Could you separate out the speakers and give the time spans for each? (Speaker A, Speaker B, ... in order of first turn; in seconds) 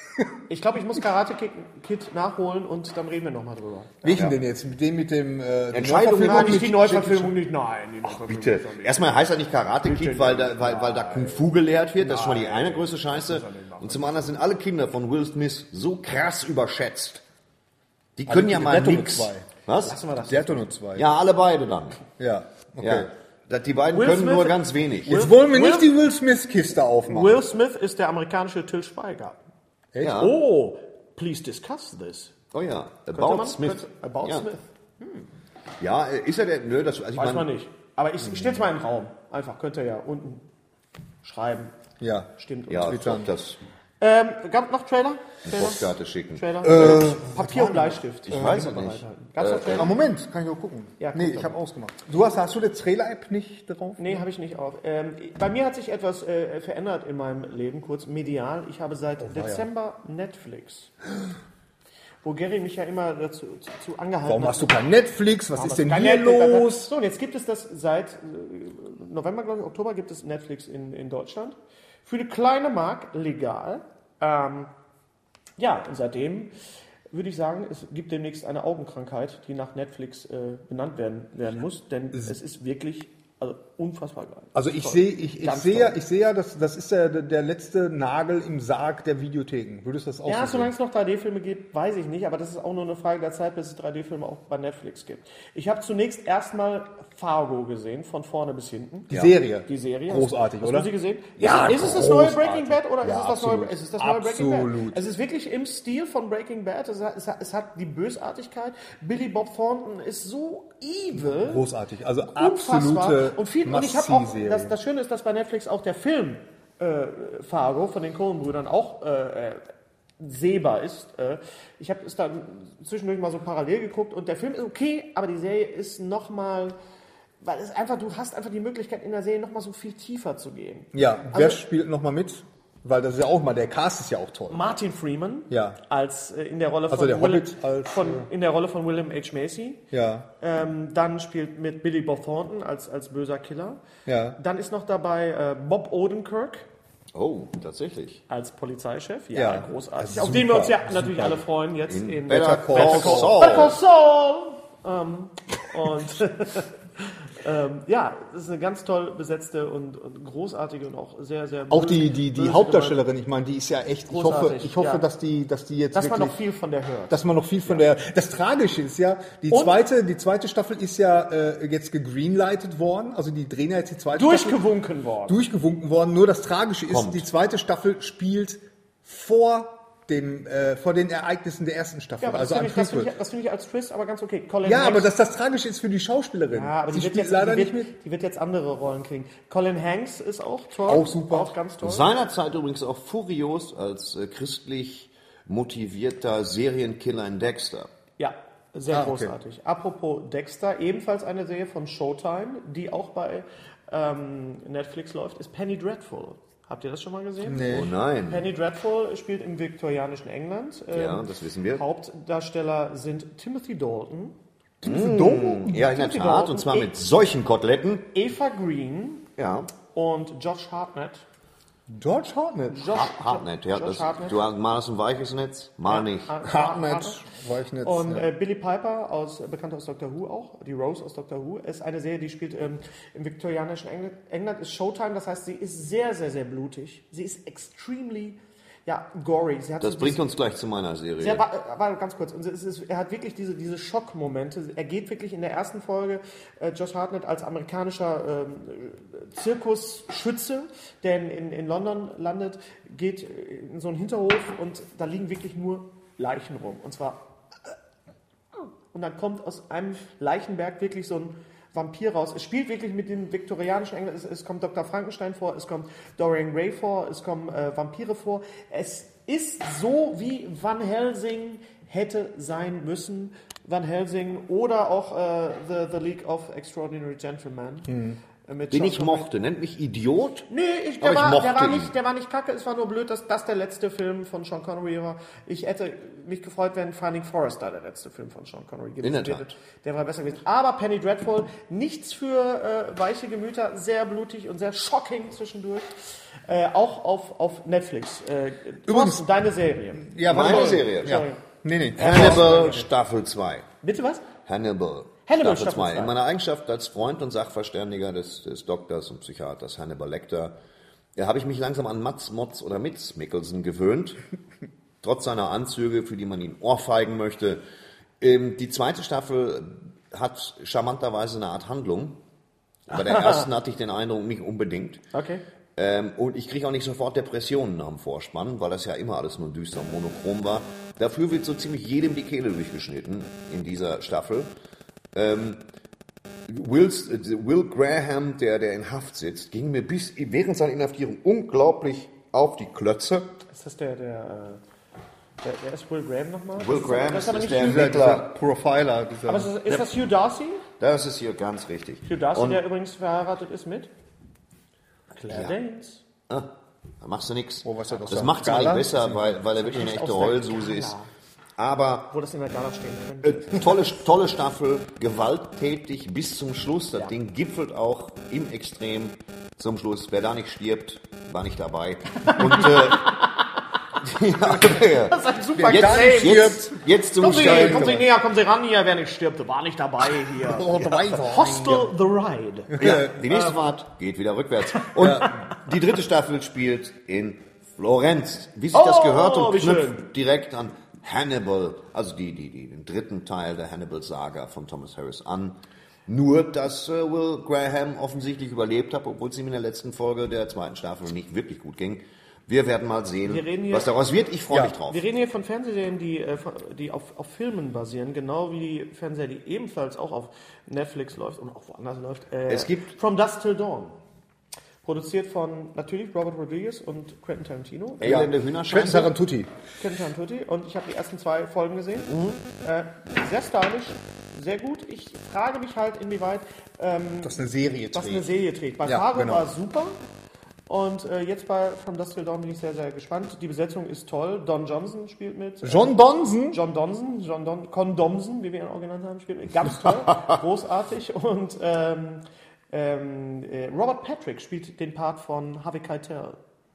Speaker A: 0.5-4.2, 6.2-9.1, 9.8-14.3, 19.8-20.7, 23.9-25.9, 27.1-29.4, 30.0-32.3, 33.1-35.3, 37.1-40.4, 41.2-41.7, 42.4-43.0, 44.0-49.9, 51.0-51.5, 54.0-60.9, 62.2-64.8, 65.5-74.7, 75.6-76.5, 77.1-86.0, 90.2-99.1, 99.6-111.7, 112.3-119.6, 120.2-126.8, 127.4-131.6, 134.5-139.8, 140.4-143.8, 144.4-146.7, 148.3-163.0, 164.1-165.0, 165.9-167.8, 169.5-169.8, 174.1-175.4, 182.2-185.1, 186.5-192.1, 198.2-214.3, 215.6-216.9, 218.1-219.2, 219.9-221.2, 222.7-224.4, 225.9-227.2, 227.8-240.2, 241.2-257.2, 258.9-279.3, 280.5-301.4, 301.9-302.9, 303.8-304.2, 305.2-306.1, 322.9-323.4, 325.1-325.4, 343.5-344.6, 345.4-348.1, 349.3-350.6, 352.1-353.9, 355.1-356.0, 359.6-361.1, 362.1-364.0, 372.2-373.3, 374.6-376.6, 377.2-383.6, 384.8-385.3, 388.7-390.1, 403.2-403.9, 404.8-414.0, 414.8-418.3, 419.8-427.4, 427.9-429.9, 430.7-446.4
Speaker B: 4.0-7.4, 18.3-19.4, 20.3-21.1, 22.2-23.1, 25.1-27.4, 29.9-30.2, 42.0-43.3, 46.6-48.6, 49.7-54.2, 59.2-59.7, 64.2-66.9, 84.5-90.7, 99.1-105.0, 111.2-114.7, 130.9-134.6, 135.5-135.8, 136.9-138.3, 139.9-140.3, 144.1-144.4, 149.3-151.4, 152.3-153.7, 161.7-166.4, 167.1-174.6, 175.3-183.1, 184.6-187.9, 190.9-191.5, 198.9-199.3, 207.4-207.9, 214.8-215.7, 221.9-222.8, 226.4-228.3, 277.9-278.2, 298.9-299.2, 300.0-302.4, 347.5-349.5, 357.6-359.3, 375.6-378.1, 380.4-381.9, 382.7-383.1, 385.0-385.3, 418.0-419.5, 427.2-428.3, 428.8-429.5, 435.6-436.6
Speaker C: 5.7-6.8, 8.0-17.2, 18.2-20.0, 20.9-22.0, 22.8-25.2, 30.0-30.4, 32.5-34.5, 35.8-37.5, 42.7-43.6, 45.4-47.2, 48.2-49.9, 147.1-148.2, 151.9-153.8, 176.9-177.2, 191.8-197.9, 207.7-208.5, 210.9-211.8, 214.8-218.1, 219.4-219.7, 222.9-226.3, 239.8-241.4, 278.7-280.5, 281.0-281.9, 289.0-289.5, 300.2-301.2, 302.0-303.7, 304.4-310.6, 311.1-314.2, 315.0-317.6, 318.2-322.2, 322.9-325.0, 325.8-334.5, 335.1-335.6, 336.5-343.3, 346.6-348.3, 350.8-352.6, 355.3-355.6, 357.0-360.9, 361.6-362.1, 363.2-373.2, 374.0-378.0, 382.8-405.0, 412.5-412.9, 418.0-419.1, 422.1-422.4